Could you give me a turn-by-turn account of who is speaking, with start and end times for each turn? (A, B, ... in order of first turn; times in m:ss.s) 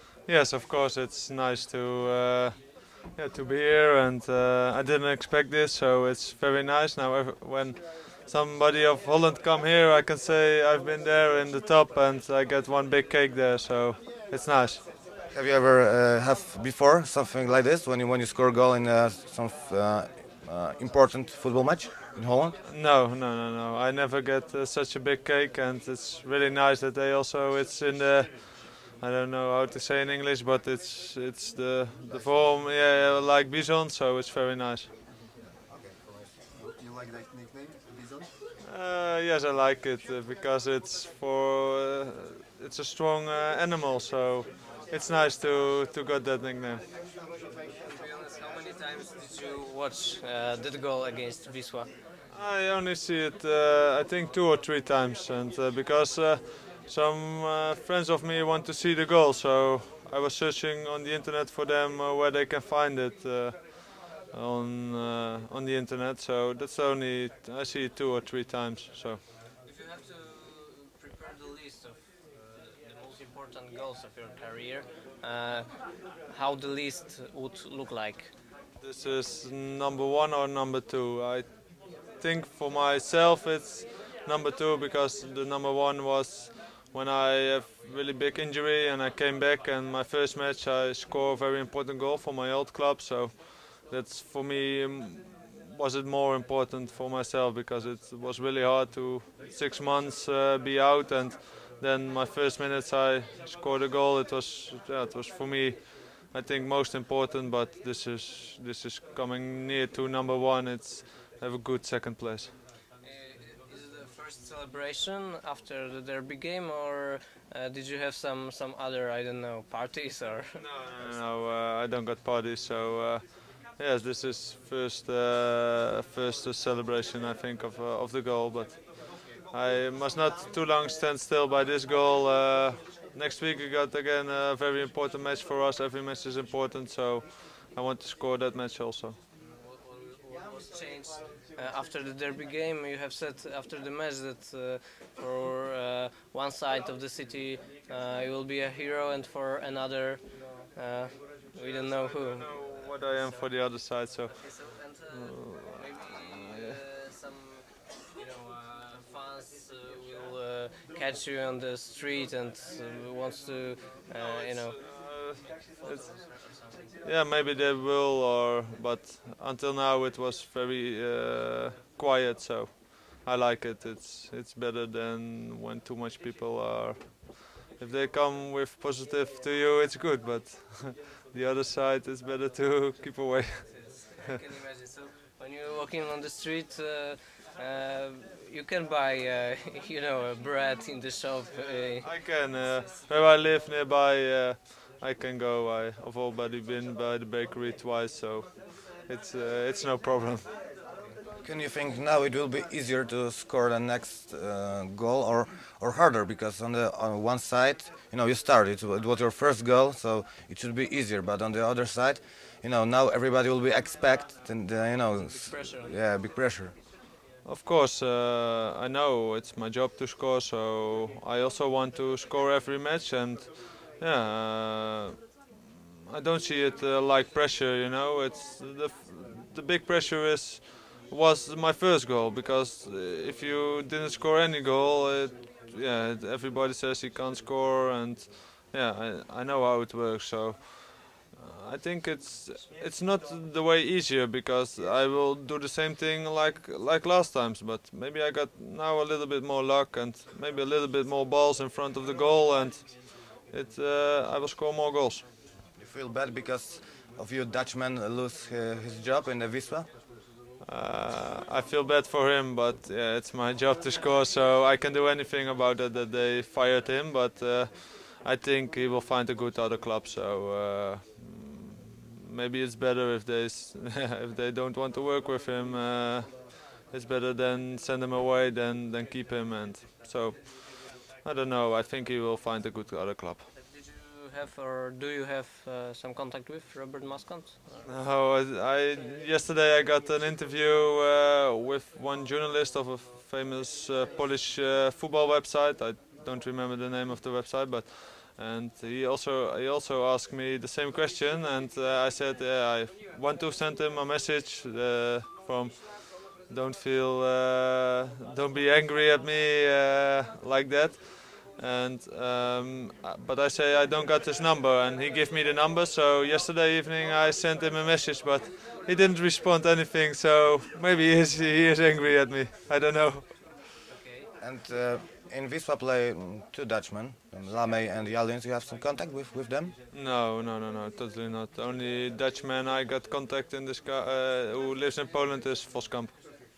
0:00.2-0:14.8 A
0:15.3-0:22.6 B
0:22.6-0:34.9 A
0:35.7-0:38.3 C
0:38.6-0:46.8 A
0:47.8-0:52.0 D
0:52.3-1:09.2 A
1:09.6-1:18.4 D
1:18.8-1:52.5 A
1:53.0-2:01.2 D
2:00.6-2:19.2 A
2:19.4-2:33.2 D
2:31.6-2:36.8 A
2:34.3-2:44.8 D
2:44.2-3:04.1 A
3:03.7-3:12.9 D
3:12.0-3:20.4 A
3:21.4-3:36.7 B
3:35.1-3:36.0 D
3:37.4-3:45.2 A
3:46.1-4:15.2 A
4:15.8-4:19.9 B
4:20.6-4:43.4 A
4:43.6-4:47.9 D
4:47.8-5:23.6 A
5:23.9-5:24.3 D
5:24.4-5:29.7 B
5:29.9-5:36.1 A